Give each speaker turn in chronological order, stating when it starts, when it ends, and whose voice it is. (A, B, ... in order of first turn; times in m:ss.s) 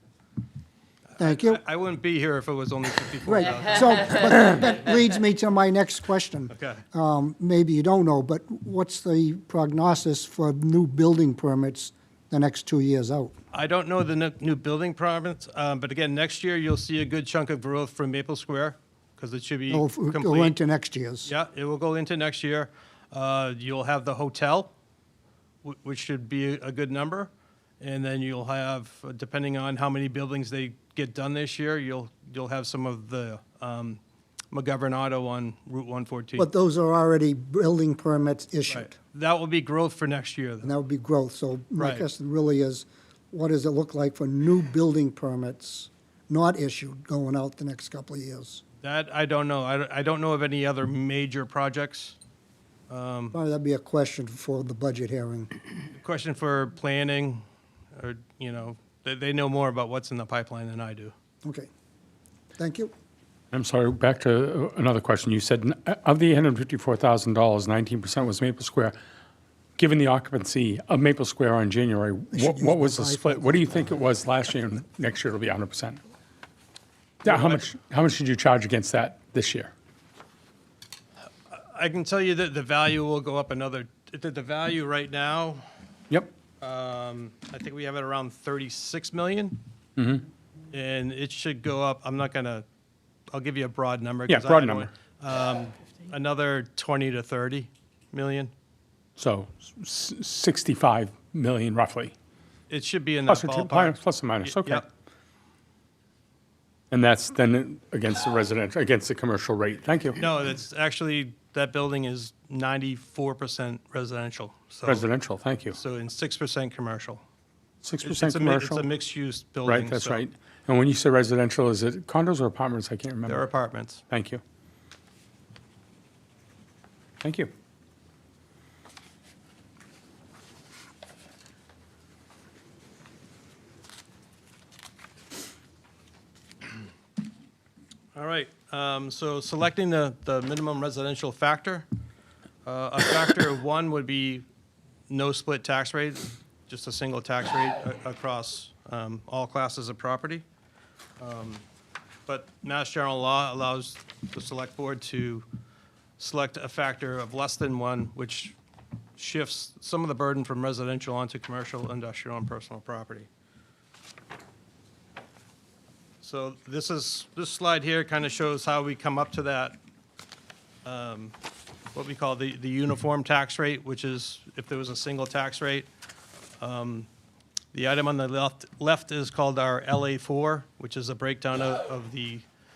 0:01.1-0:04.3 A
0:01.2-0:01.6 B
0:03.2-0:13.3 B
0:06.5-0:06.8 A
0:13.5-0:20.6 A
0:19.7-0:21.3 B
0:21.2-0:24.7 A
0:25.6-0:34.0 A
0:34.5-0:36.5 A
0:36.4-0:38.9 B
0:38.7-0:40.7 A
0:40.6-0:48.6 B
0:41.8-0:42.1 A
0:48.8-0:52.2 A
0:52.9-0:53.3 A
0:53.3-0:55.6 B
0:55.9-0:57.4 A
0:57.9-1:01.1 A
1:01.4-1:01.7 B
1:02.6-1:02.9 B
1:03.5-1:09.0 C
1:09.8-1:16.0 C
1:12.3-1:13.9 B
1:17.2-1:19.7 C
1:17.2-1:17.6 A
1:21.5-1:25.6 A
1:26.6-1:29.6 A
1:30.0-1:30.2 C
1:30.7-1:32.6 A
1:33.3-1:38.5 A
1:34.3-1:34.9 C
1:39.2-1:42.1 C
1:42.7-1:44.8 A
1:43.3-1:44.8 C
1:46.9-1:50.2 C
1:50.2-1:55.1 A
1:54.8-1:55.8 C
1:55.7-1:57.2 A
1:57.8-1:58.8 C
1:58.0-2:00.2 A
1:59.6-2:03.5 C
2:03.3-2:04.0 A
2:04.1-2:04.4 C
2:07.2-2:07.5 C
2:18.1-2:21.8 A
2:22.6-2:24.4 A
2:25.1-2:30.4 A
2:31.2-2:31.6 A
2:32.3-2:35.4 A
2:36.2-2:38.5 A
2:39.2-2:43.3 A
2:46.2-2:49.8 A
2:50.8-2:51.3 A
2:51.9-2:55.9 A
2:56.6-2:57.1 A
2:57.7-3:02.4 A